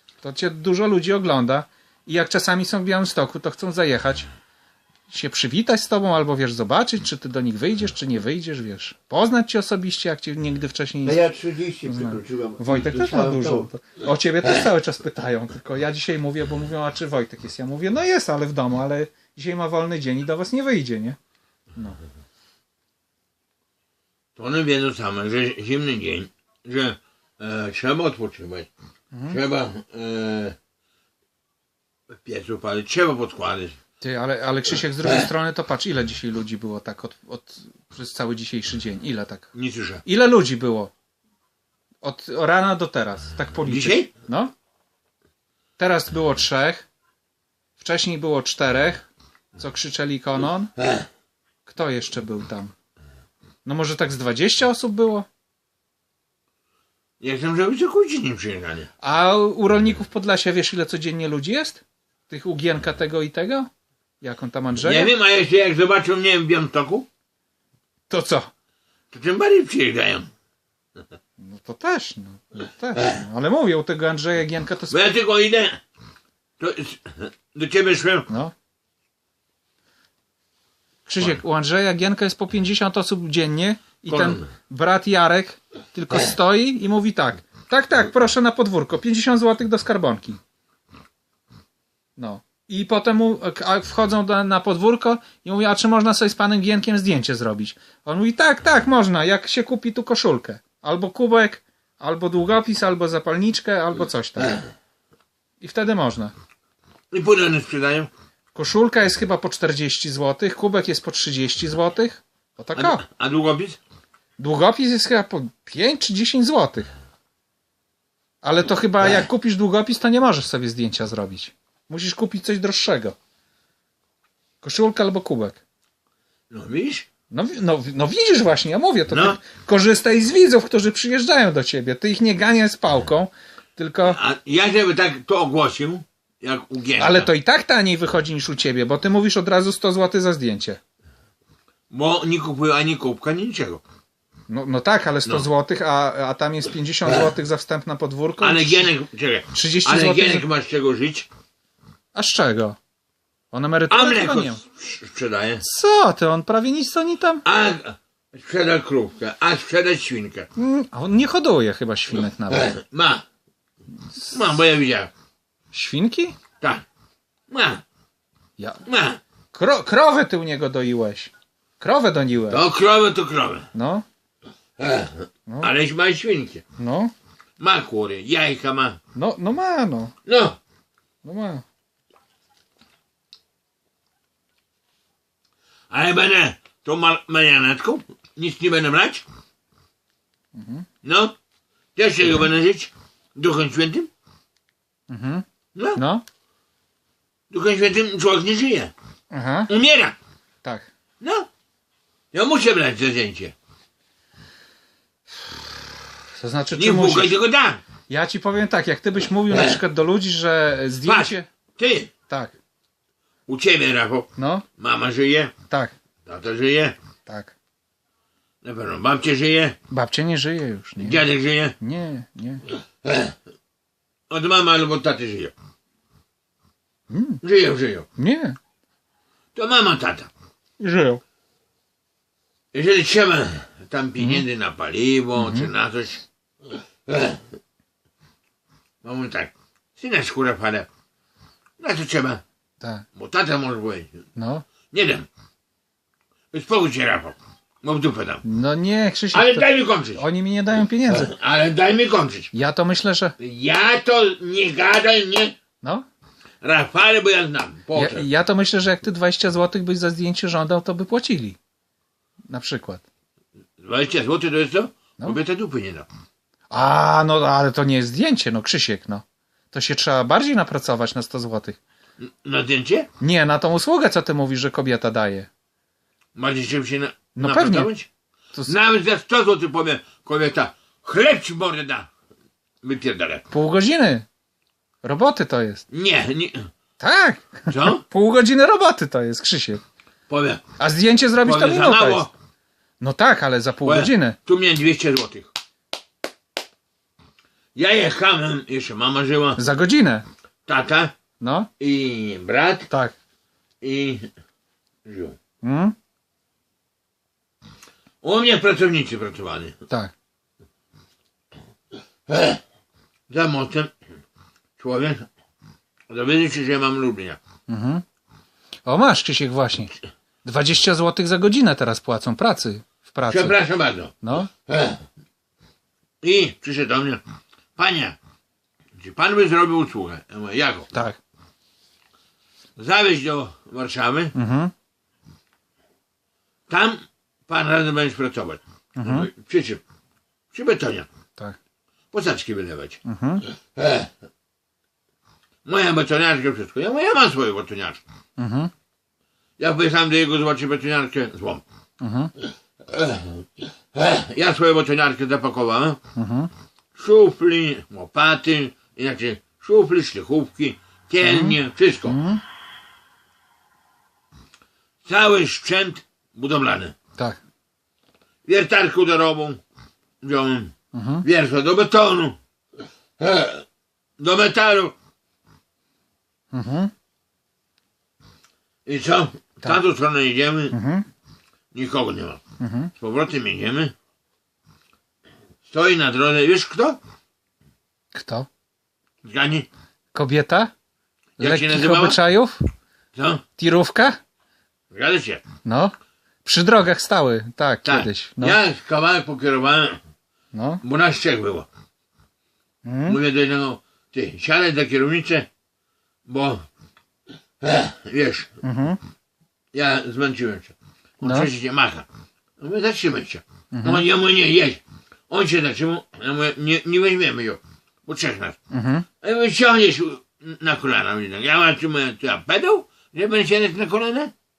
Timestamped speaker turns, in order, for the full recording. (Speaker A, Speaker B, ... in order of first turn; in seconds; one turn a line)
Speaker A: 0.2-4.3
Speaker A: 5.1-11.2
Speaker B: 11.0-13.7
Speaker A: 11.9-21.2
Speaker A: 21.8-22.0
Speaker C: 24.4-28.7
Speaker A: 29.1-29.4
Speaker C: 29.3-30.6
Speaker C: 32.1-33.8
Speaker A: 34.0-39.5
Speaker C: 39.5-40.0
Speaker A: 40.0-40.9
Speaker A: 42.0-44.5
Speaker C: 43.6-44.1
Speaker A: 45.8-46.9
Speaker A: 47.8-50.7
Speaker C: 50.8-51.0
Speaker A: 51.7-52.7
Speaker A: 53.6-55.3
Speaker C: 57.2-58.9
Speaker A: 59.0-63.7
Speaker A: 64.2-65.1
Speaker C: 64.8-67.1
Speaker A: 68.1-68.5
Speaker C: 69.1-70.3
Speaker A: 71.4-75.0
Speaker C: 74.9-75.8
Speaker C: 76.6-78.3
Speaker A: 78.3-78.5
Speaker A: 81.1-90.4
Speaker C: 84.1-84.5
Speaker A: 92.2-104.7
Speaker A: 105.6-106.3
Speaker C: 107.1-108.1
Speaker A: 108.5-113.0
Speaker C: 112.8-113.8
Speaker A: 114.4-116.9
Speaker A: 118.4-123.2
Speaker A: 124.6-125.6
Speaker C: 126.5-127.1
Speaker A: 127.3-134.2
Speaker C: 129.1-129.4
Speaker C: 134.0-137.3
Speaker A: 137.0-140.8
Speaker C: 141.9-143.8
Speaker A: 144.5-148.9
Speaker C: 148.4-151.3
Speaker A: 149.5-150.5
Speaker A: 152.1-152.8
Speaker A: 153.5-154.6
Speaker C: 153.9-155.6
Speaker A: 155.6-157.4
Speaker C: 157.4-160.5
Speaker A: 160.6-162.7
Speaker C: 162.5-163.2
Speaker C: 164.3-165.1
Speaker A: 165.7-166.4
Speaker C: 167.5-167.8
Speaker C: 168.8-169.2
Speaker A: 169.5-172.6
Speaker C: 172.5-173.7
Speaker A: 173.7-174.1
Speaker C: 174.8-176.6
Speaker A: 176.8-177.1
Speaker C: 177.6-179.0
Speaker A: 179.2-180.2
Speaker C: 180.2-180.6
Speaker A: 181.2-181.6
Speaker C: 185.9-189.2
Speaker A: 190.6-190.9
Speaker C: 191.0-191.3
Speaker C: 192.0-194.1
Speaker A: 195.1-196.2
Speaker C: 197.5-198.9
Speaker A: 199.3-199.7
Speaker C: 199.7-200.2
Speaker C: 201.2-201.5
Speaker C: 202.3-203.6
Speaker A: 206.4-207.3
Speaker C: 206.7-207.8
Speaker A: 208.1-211.5
Speaker C: 209.5-209.8
Speaker C: 211.0-212.1
Speaker A: 212.3-212.5
Speaker C: 213.5-215.5
Speaker A: 214.4-214.7
Speaker C: 216.3-216.9
Speaker A: 217.3-217.5
Speaker C: 218.6-219.8
Speaker A: 219.9-221.2
Speaker C: 221.0-221.8
Speaker A: 221.8-222.6
Speaker C: 223.0-223.3
Speaker C: 224.3-225.5
Speaker A: 227.1-227.4
Speaker C: 227.4-228.1
Speaker A: 228.2-228.6
Speaker C: 229.6-230.3
Speaker A: 230.8-231.2
Speaker C: 232.7-236.2
Speaker A: 235.4-235.7
Speaker C: 237.1-237.4
Speaker C: 239.0-240.9
Speaker C: 241.8-242.4
Speaker C: 243.2-244.2
Speaker A: 244.3-244.7
Speaker C: 244.9-245.3
Speaker C: 246.5-248.4
Speaker A: 248.4-251.3
Speaker C: 249.3-250.2
Speaker C: 251.1-252.5
Speaker A: 252.5-253.3
Speaker C: 253.4-255.6
Speaker C: 256.6-258.3
Speaker A: 257.9-261.6
Speaker A: 262.5-263.0
Speaker C: 263.8-266.1
Speaker A: 266.7-271.8
Speaker C: 272.2-273.1
Speaker A: 273.2-275.5
Speaker C: 276.4-278.1
Speaker A: 277.4-277.9
Speaker C: 278.6-282.1
Speaker C: 282.8-283.5
Speaker A: 283.5-284.3
Speaker A: 285.0-285.9
Speaker C: 285.9-286.7
Speaker A: 287.0-289.8
Speaker C: 287.7-288.0
Speaker C: 290.3-290.6
Speaker A: 290.8-292.3
Speaker C: 291.4-292.3
Speaker A: 293.0-294.4
Speaker C: 293.8-295.5
Speaker C: 297.8-299.6
Speaker A: 299.6-300.3
Speaker C: 300.7-301.1
Speaker A: 301.4-301.7
Speaker C: 301.8-302.9
Speaker C: 303.8-304.3
Speaker C: 305.1-305.4
Speaker A: 305.6-306.0
Speaker C: 308.2-309.8
Speaker C: 312.3-312.6
Speaker C: 313.3-313.9
Speaker C: 314.8-315.2
Speaker C: 316.1-317.4
Speaker A: 317.7-318.0
Speaker A: 318.9-323.6
Speaker C: 323.3-324.1
Speaker A: 324.2-324.5
Speaker C: 324.7-325.0
Speaker C: 326.2-327.2
Speaker C: 327.8-328.2
Speaker C: 329.0-330.9
Speaker A: 330.9-331.2
Speaker C: 332.8-334.4
Speaker A: 334.3-334.7
Speaker C: 336.7-339.8
Speaker A: 339.0-339.3
Speaker C: 340.5-341.1
Speaker C: 342.1-343.0
Speaker A: 343.1-343.4
Speaker C: 343.8-344.1
Speaker C: 345.6-348.0
Speaker A: 348.4-348.7
Speaker C: 349.6-351.6
Speaker A: 352.0-352.3
Speaker C: 352.9-356.0
Speaker A: 356.2-356.5
Speaker C: 357.0-362.2
Speaker A: 361.2-362.4
Speaker C: 365.1-366.9
Speaker C: 368.4-369.6
Speaker C: 370.2-372.4
Speaker A: 370.9-371.3
Speaker C: 373.2-373.6
Speaker C: 374.2-374.9
Speaker A: 376.5-376.9
Speaker C: 378.9-380.8
Speaker A: 380.7-381.1
Speaker C: 381.7-382.4
Speaker A: 382.6-382.9
Speaker C: 383.0-383.9
Speaker C: 385.7-387.0
Speaker A: 388.1-388.5
Speaker C: 389.2-389.7
Speaker A: 390.1-390.7
Speaker C: 391.4-392.2
Speaker A: 391.4-392.6
Speaker C: 393.1-393.4
Speaker A: 393.6-394.2
Speaker C: 394.9-395.4
Speaker A: 395.6-398.6
Speaker C: 397.9-400.0
Speaker A: 400.5-400.8
Speaker C: 400.8-401.7
Speaker A: 402.9-403.2
Speaker C: 403.1-405.5
Speaker C: 406.3-406.6
Speaker C: 407.6-408.5
Speaker A: 408.6-409.0
Speaker C: 409.7-412.1
Speaker A: 411.2-411.5
Speaker C: 412.6-418.6
Speaker A: 413.7-414.1
Speaker A: 418.7-419.1
Speaker C: 419.2-424.3